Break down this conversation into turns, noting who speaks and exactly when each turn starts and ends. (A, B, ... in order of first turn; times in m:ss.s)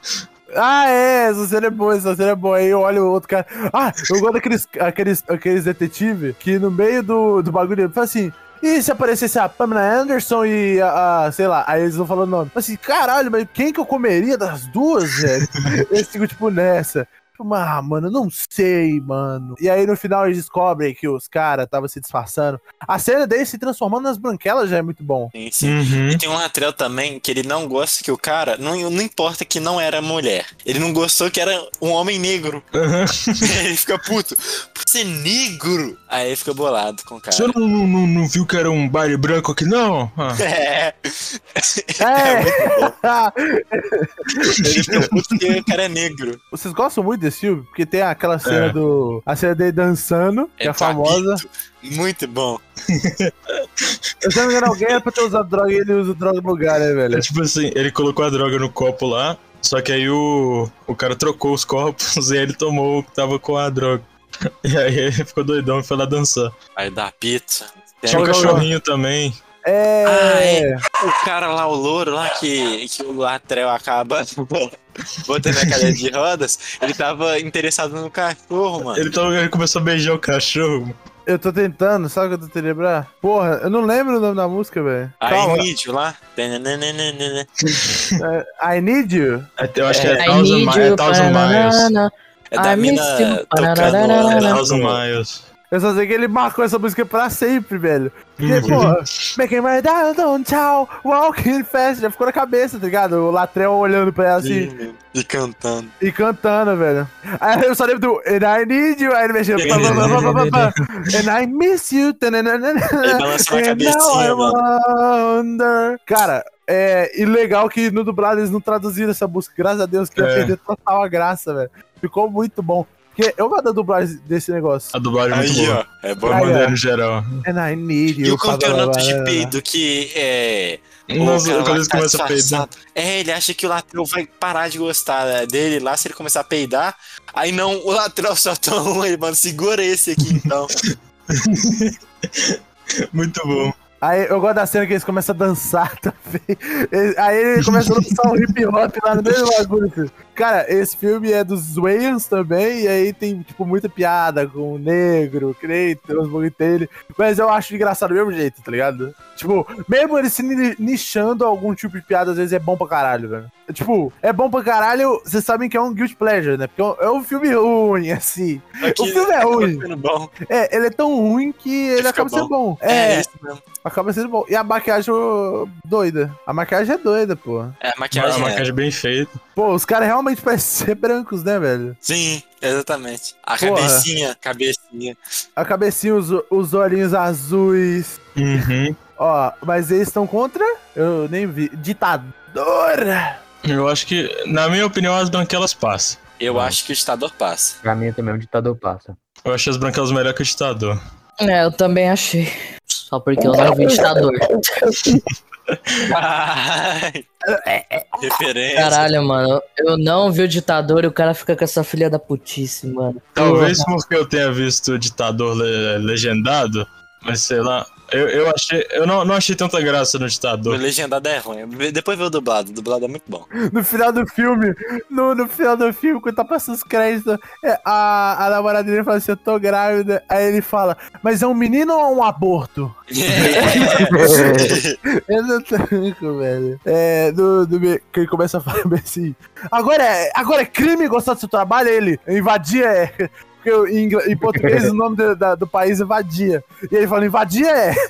0:00.5-0:25.3 A
0:25.3-0:32.6 B
0:25.6-0:26.2 C
0:32.7-0:33.5 C
0:33.4-0:37.5 B
0:37.3-0:40.4 C
0:40.4-0:43.0 B
0:42.0-0:44.7 A
0:44.6-0:46.4 B
0:44.6-0:45.1 C
0:46.5-0:51.4 A
0:48.4-0:48.8 C
0:50.6-0:52.6 B
0:52.9-0:54.3 C
0:54.2-0:57.2 A
0:57.1-1:04.1 C
1:04.6-1:06.5 C
1:06.8-1:08.7 B
1:08.1-1:09.4 C
1:08.1-1:08.7 A
1:09.6-1:10.8 A
1:10.0-1:19.2 B
1:15.5-1:15.8 C
1:18.9-1:21.0 C
1:21.2-1:25.7 A
1:25.2-1:27.5 B
1:27.7-1:28.2 C
1:28.2-1:29.5 A
1:29.6-1:31.9 C
1:29.9-1:30.2 B
1:30.2-1:34.6 D
1:32.5-1:35.0 B
1:33.9-1:35.5 C
1:35.7-1:44.7 A
1:38.4-1:39.2 C
1:44.4-1:45.9 B
1:46.0-2:04.9 A
1:49.6-1:50.4 B
1:49.6-1:50.8 C
1:53.0-1:54.6 B
2:00.2-2:00.5 C
2:04.9-2:07.4 C
2:05.3-2:06.5 B
2:06.3-2:06.8 A
2:07.4-2:09.6 A
2:08.2-2:20.7 B
2:11.1-2:12.7 C
2:20.8-2:22.6 C
2:23.1-2:23.7 C
2:24.0-2:49.8 A
2:27.6-2:28.1 C
2:48.8-2:50.3 B
2:50.5-2:53.3 A
2:52.0-2:53.6 B
2:53.8-2:57.8 A
2:57.8-2:58.6 B
2:58.1-2:59.4 C
2:59.6-3:02.0 A
3:02.0-3:05.2 B
3:03.6-3:04.1 A
3:05.6-3:08.2 A
3:08.4-3:09.0 C
3:09.2-3:13.4 A
3:13.7-3:16.2 C
3:16.4-3:17.8 B
3:16.5-3:16.8 E
3:17.8-3:19.2 E
3:19.4-3:21.0 C
3:21.4-3:22.5 D
3:23.1-3:24.5 D
3:25.7-3:26.0 C
3:26.0-3:27.2 B
3:27.4-3:28.3 A
3:28.2-3:29.1 B
3:28.8-3:33.8 D
3:33.3-3:40.8 C
3:40.6-3:43.5 B
3:43.7-4:08.0 A
3:53.1-3:55.0 B
3:54.1-3:54.7 E
4:04.6-4:04.9 E